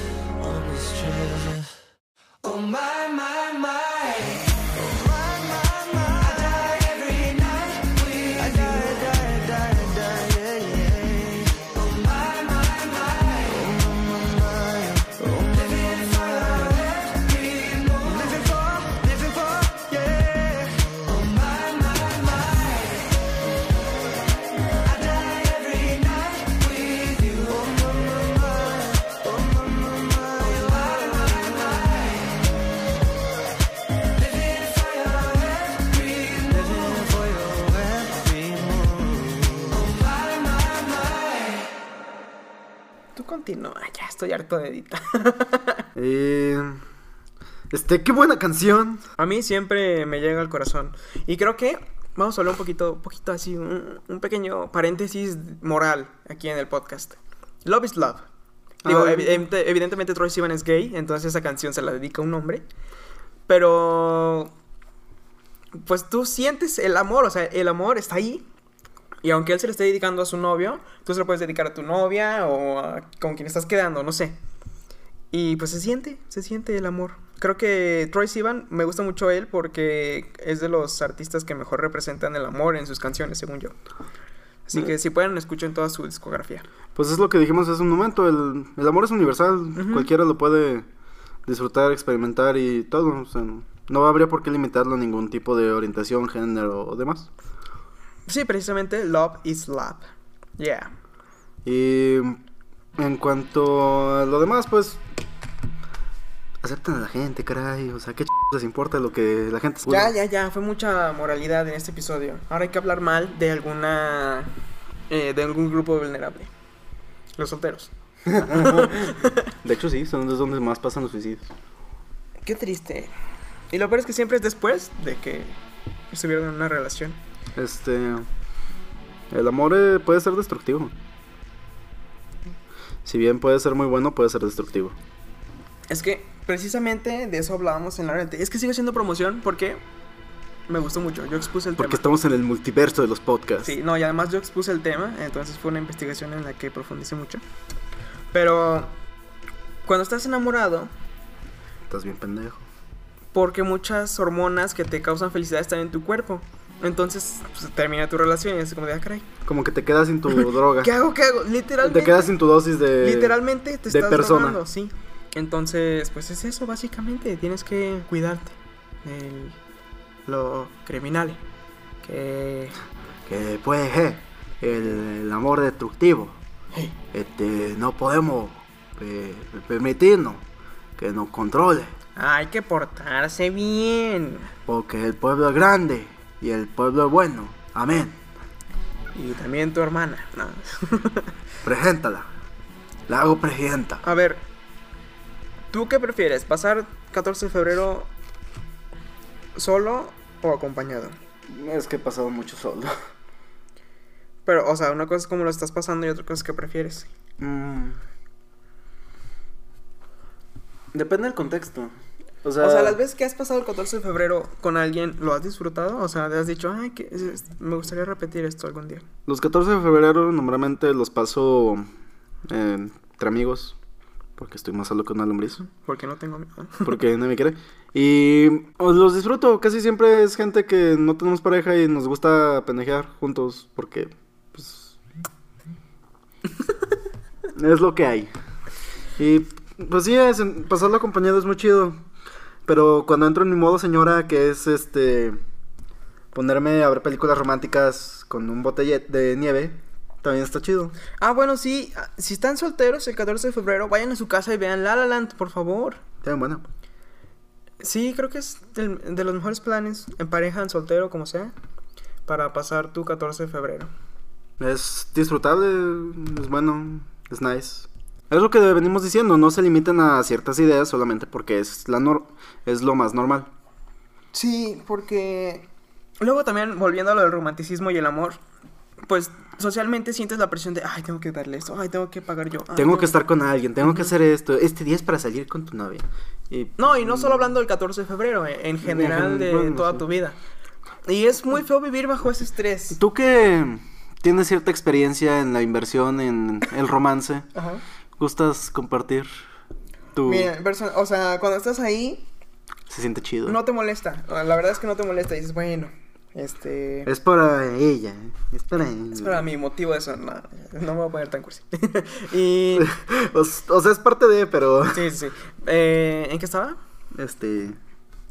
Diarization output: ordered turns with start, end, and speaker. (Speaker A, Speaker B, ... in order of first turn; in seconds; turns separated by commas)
Speaker A: 0.4-1.7, Speaker A: 2.4-23.1, Speaker A: 24.8-32.3, Speaker A: 34.2-39.9, Speaker B: 43.1-45.9, Speaker C: 45.9-46.8, Speaker C: 47.7-49.0, Speaker B: 49.2-58.2, Speaker C: 58.8-59.4, Speaker B: 58.8-62.6, Speaker B: 63.5-64.5, Speaker B: 65.8-68.5, Speaker B: 69.2-74.3, Speaker B: 75.3-83.8, Speaker B: 84.7-86.6, Speaker C: 86.9-90.9, Speaker B: 89.7-90.1, Speaker C: 91.5-97.3, Speaker B: 98.3-100.1, Speaker B: 100.6-100.9, Speaker C: 101.6-102.4, Speaker C: 103.0-105.0, Speaker C: 106.6-110.1, Speaker B: 109.8-114.5, Speaker B: 115.1-116.5, Speaker B: 117.4-119.5, Speaker C: 118.2-121.5, Speaker B: 122.4-123.1, Speaker B: 123.7-125.6, Speaker B: 126.1-127.2, Speaker C: 127.5-128.3, Speaker C: 129.3-130.9, Speaker C: 133.0-135.0, Speaker B: 135.9-139.8, Speaker B: 140.7-142.0, Speaker C: 141.8-143.7, Speaker B: 143.6-147.4, Speaker B: 148.3-148.9, Speaker B: 149.8-150.9, Speaker C: 151.9-152.6, Speaker B: 153.3-159.3, Speaker C: 159.4-160.9, Speaker B: 160.3-162.3, Speaker C: 161.8-164.6, Speaker B: 163.0-169.6, Speaker B: 170.3-171.4, Speaker B: 172.0-172.8, Speaker C: 173.2-176.4, Speaker C: 177.1-180.4, Speaker C: 181.0-181.9, Speaker B: 182.2-184.5, Speaker C: 184.7-188.2, Speaker B: 189.1-191.3, Speaker C: 191.6-192.3, Speaker C: 193.1-194.0, Speaker B: 194.0-194.4, Speaker B: 195.7-198.1, Speaker B: 199.5-201.1, Speaker C: 201.5-202.9, Speaker B: 204.4-207.1, Speaker C: 207.4-208.0, Speaker C: 210.9-211.9, Speaker C: 212.4-213.0, Speaker B: 212.6-219.0, Speaker C: 219.3-221.9, Speaker C: 222.5-223.8, Speaker C: 224.4-225.6, Speaker B: 225.7-226.9, Speaker C: 226.8-234.9, Speaker C: 237.5-238.3, Speaker C: 239.2-242.0, Speaker C: 242.7-245.4, Speaker C: 246.3-250.9, Speaker B: 251.2-256.0, Speaker C: 256.2-256.6, Speaker B: 257.8-261.5, Speaker B: 262.2-263.9, Speaker C: 264.6-273.5, Speaker B: 274.3-275.7, Speaker B: 276.2-278.4, Speaker B: 279.0-283.2, Speaker C: 282.7-287.5, Speaker B: 283.8-284.1, Speaker B: 286.8-290.4, Speaker C: 288.8-290.0, Speaker B: 291.1-293.0, Speaker C: 292.9-297.5, Speaker B: 297.5-297.8, Speaker C: 298.2-299.3, Speaker C: 300.1-300.5, Speaker B: 300.2-302.3, Speaker C: 302.9-303.6, Speaker B: 303.4-307.1, Speaker C: 307.1-309.4, Speaker B: 309.1-312.9, Speaker C: 312.7-315.1, Speaker B: 314.9-316.8, Speaker C: 317.1-317.8